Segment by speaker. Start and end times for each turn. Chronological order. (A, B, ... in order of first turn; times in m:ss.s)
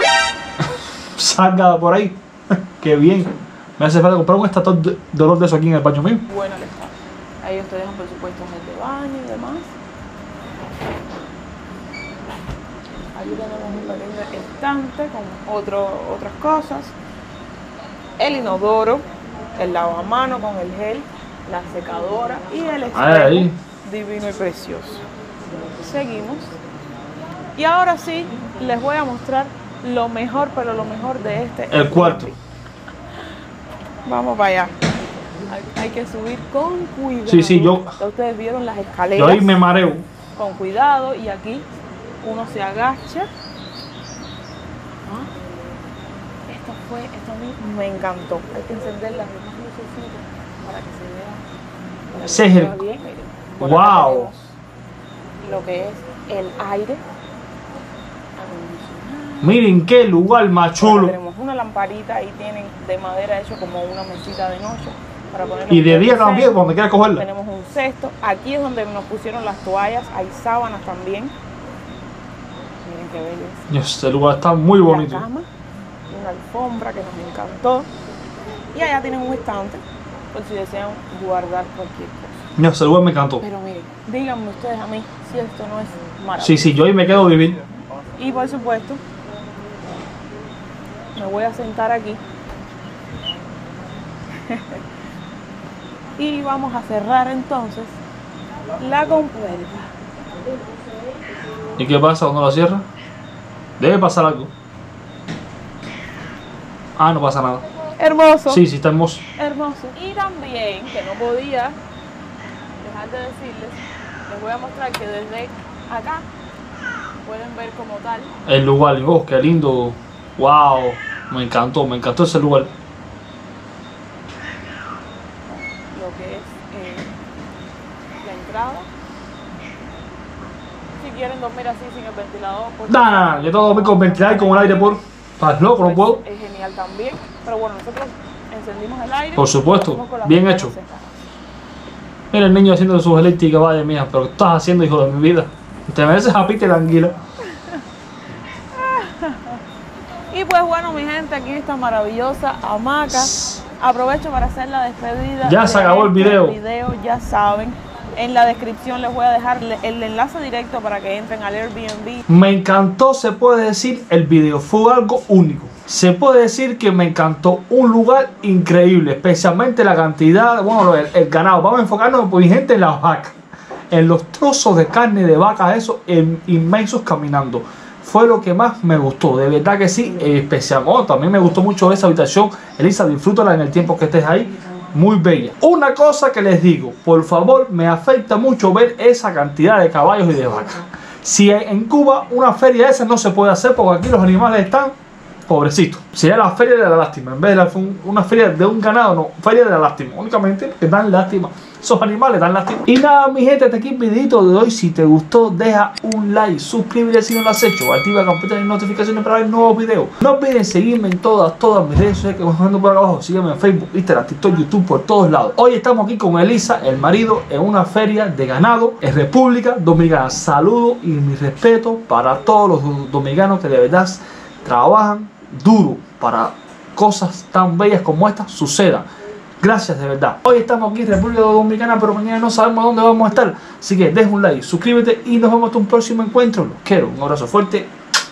0:01.2-0:06.2 A
0:06.3-0:09.7 B
0:13.2-0:16.9 B
0:18.2-0:19.0 B
0:19.6-0:25.0 B
0:22.9-0:23.6 A
0:25.8-0:26.6 B
0:27.6-0:32.4 B
0:31.7-0:32.3 A
0:34.1-0:34.7 B
0:35.5-0:39.6 B
0:37.3-0:38.0 A
0:39.2-0:40.1 A
0:40.4-0:41.6 B
0:42.2-0:43.3 B
0:46.5-0:51.4 B
0:52.1-0:54.5 B
0:52.3-0:52.8 A
0:53.6-0:54.3 A
0:55.4-0:57.0 B
0:58.4-0:59.6 B
0:59.4-1:01.2 A
1:00.8-1:06.6 B
1:05.7-1:07.2 A
1:07.1-1:11.3 B
1:12.8-1:13.6 B
1:13.7-1:15.2 A
1:14.8-1:15.5 B
1:16.1-1:17.9 B
1:18.7-1:19.8 B
1:20.3-1:22.4 B
1:22.6-1:23.4 A
1:23.4-1:26.7 B
1:26.4-1:27.6 A
1:28.2-1:29.0 B
1:31.2-1:32.2 B
1:34.5-1:34.8 B
1:36.2-1:38.0 B
1:38.8-1:39.9 B
1:41.8-1:42.8 A
1:43.8-1:44.5 A
1:47.0-1:47.6 A
1:48.0-1:48.6 B
1:48.5-1:49.2 A
1:49.4-1:51.8 B
1:52.8-1:56.2 B
1:57.2-1:58.3 B
1:58.5-2:02.7 A
2:05.5-2:07.1 B
2:08.2-2:08.9 B
2:11.0-2:15.0 B
2:12.9-2:16.2 A
2:15.8-2:21.2 B
2:19.4-2:20.7 A
2:22.3-2:27.2 A
2:28.8-2:29.6 B
2:30.3-2:42.3 B
2:35.4-2:36.6 A
2:42.3-2:53.4 A
2:53.9-3:14.9 A
3:15.5-3:49.1 A
3:49.6-3:57.9 A